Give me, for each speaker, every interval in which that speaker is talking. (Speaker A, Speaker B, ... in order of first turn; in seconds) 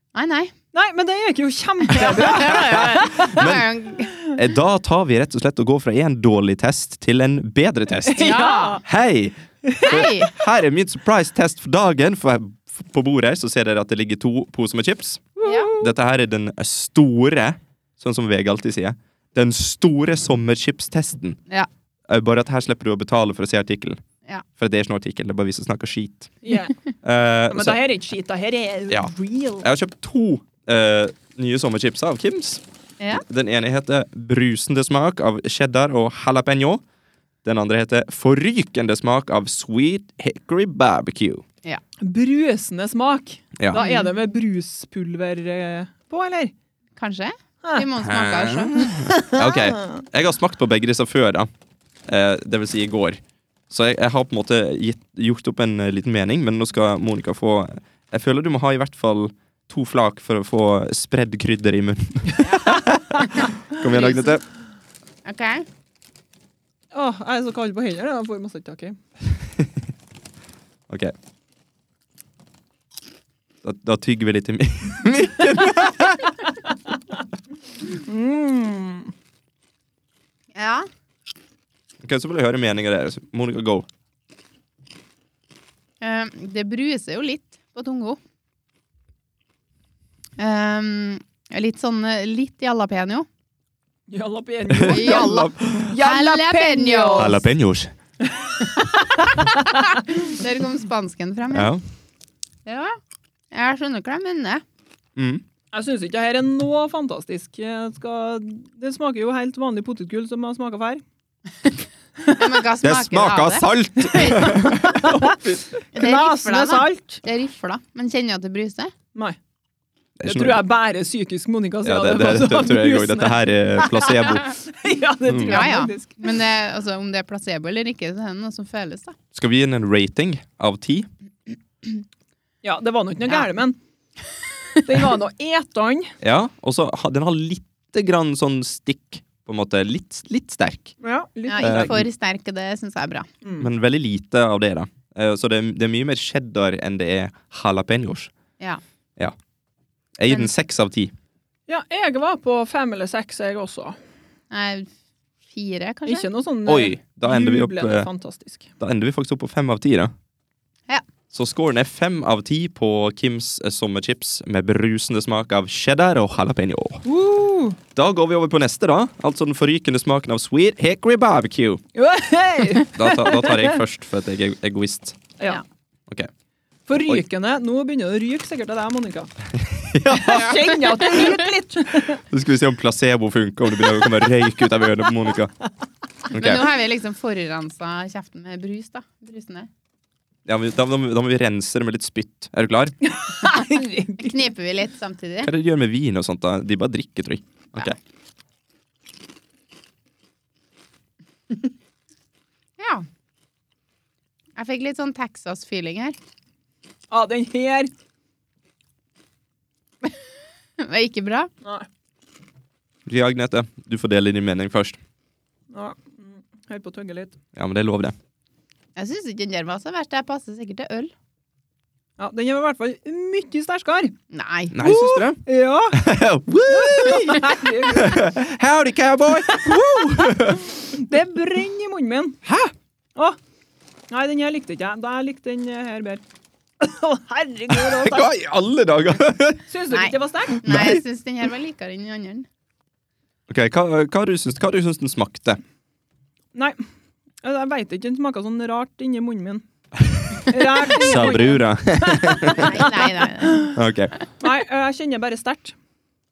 Speaker A: 0.1-0.5, 2.0-4.1, 8.2-8.8, 9.8-10.3, 15.4-15.7, 43.7-44.1, 47.0-49.0, 62.4-62.8, 63.3-64.4, 65.2-65.7, 80.5-80.9, 86.0-88.2, 90.4-93.3, 94.8-97.4, 99.2-101.7, 102.7-103.0, 103.5-104.6, 112.2-114.5, 115.9-118.9, 125.5-129.2, 141.5-143.3, 154.5-154.9, 155.5-156.3, 180.2-181.5, 186.3-189.7, 194.2-195.5, 202.8-203.1, 204.6-206.1, 210.8-211.5, 218.9-221.1, 224.3-224.8, 239.9-242.4, 252.4-253.7
Speaker B: 0.7-3.5, 8.1-8.8, 9.7-10.0, 15.3-15.9, 26.4-26.7, 27.5-29.7, 42.0-46.5, 48.8-50.0, 66.9-69.0, 77.8-79.1, 94.1-97.4, 98.2-99.9, 105.7-111.0, 114.5-115.4, 115.9-117.2, 120.2-126.3, 132.6-133.8, 134.8-136.1, 141.0-142.0, 143.4-143.7, 151.7-154.0, 156.1-158.7, 167.0-167.8, 171.9-173.8, 176.9-179.3, 180.1-182.2, 193.0-194.4, 207.1-207.9, 215.7-217.4, 222.2-224.1, 224.8-226.0, 226.7-228.3, 229.5-232.4, 234.1-236.2, 236.8-238.3, 239.7-240.6, 246.5-246.8, 247.4-249.6, 250.4-251.7, 252.2-253.7, 254.4-255.7
Speaker C: 2.0-3.7, 4.2-8.3, 8.8-21.4, 22.1-24.0, 24.6-26.3, 27.0-27.8, 28.9-32.6, 33.1-36.8, 37.4-41.4, 48.0-51.5, 52.0-64.4, 70.9-71.1, 73.6-76.4, 82.0-83.8, 94.7-95.9, 97.2-97.9, 101.5-101.8, 105.2-105.4, 112.8-115.7, 120.2-120.6, 121.8-124.5, 125.2-125.7, 129.3-131.1, 136.2-140.9, 141.6-142.1, 143.6-148.3, 150.2-151.1, 156.7-158.1, 158.8-160.1, 161.3-167.0, 167.9-171.8, 172.9-175.3, 177.0-177.2, 179.5-180.8, 182.1-185.5, 186.3-186.7, 190.4-192.9, 195.4-198.0, 213.1-215.0, 217.6-218.1, 224.7-225.4, 225.9-230.7, 232.4-232.7, 237.7-239.6, 240.6-241.0, 243.5-245.6, 251.0-252.8, 253.6-254.1